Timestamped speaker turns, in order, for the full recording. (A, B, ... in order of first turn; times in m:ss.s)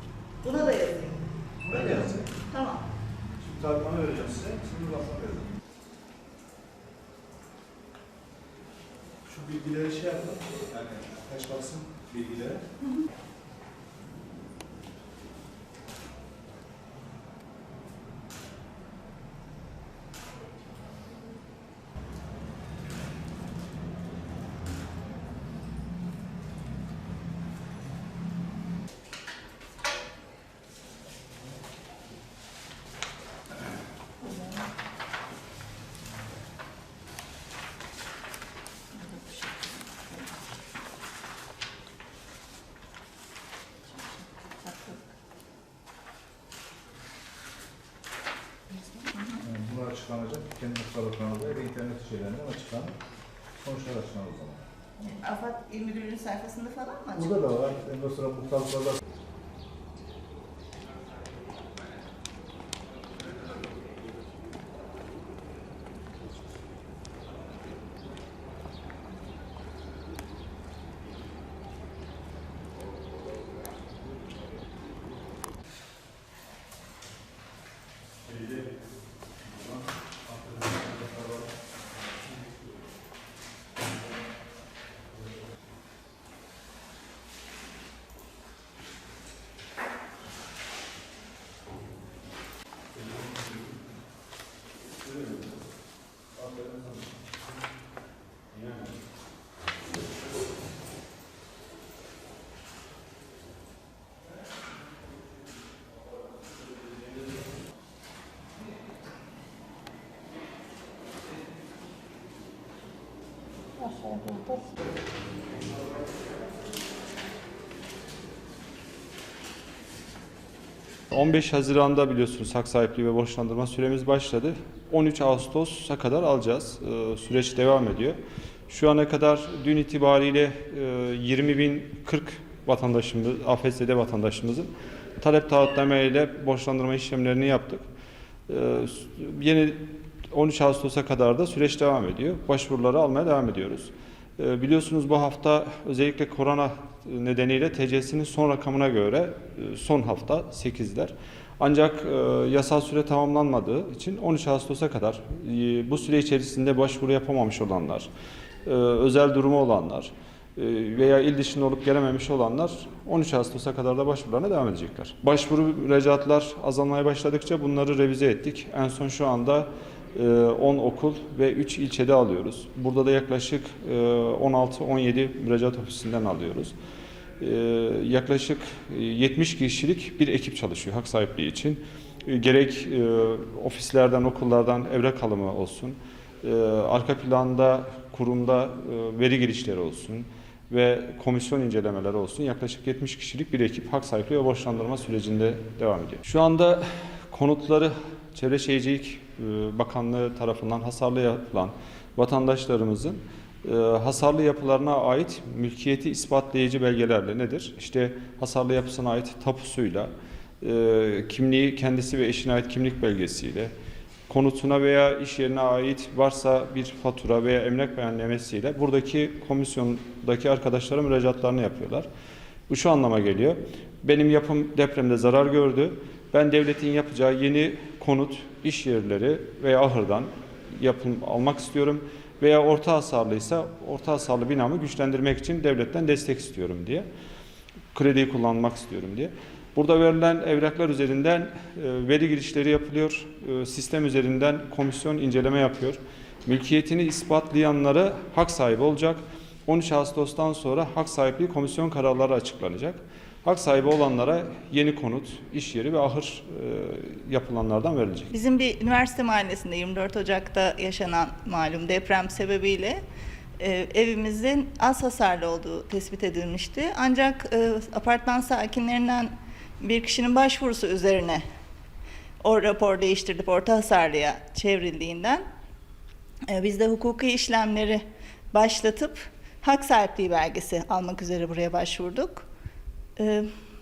0:00.4-0:01.2 A
0:01.6-0:02.3 B
0:02.5-0:02.8 A
0:03.4-0:05.5 B
0:09.3-0:12.6 B
0:38.9-0:40.3 A
0:43.9-0:45.0 A
0:48.8-0:49.4 A
0:49.4-0:53.0 B
0:53.6-0:54.6 B
0:55.0-0:57.4 A
0:57.2-0:59.0 B
1:53.9-1:54.6 A
2:01.1-2:17.8 C
2:18.5-2:38.1 C
2:38.6-2:56.8 C
2:57.4-3:33.7 C
3:34.3-3:42.1 C
3:42.7-3:57.1 C
3:57.9-4:18.3 C
4:18.3-4:23.0 A
4:23.6-4:31.4 A
4:32.4-4:35.4 A
4:36.5-4:38.0 A
4:38.5-4:42.5 A
4:43.2-4:43.5 A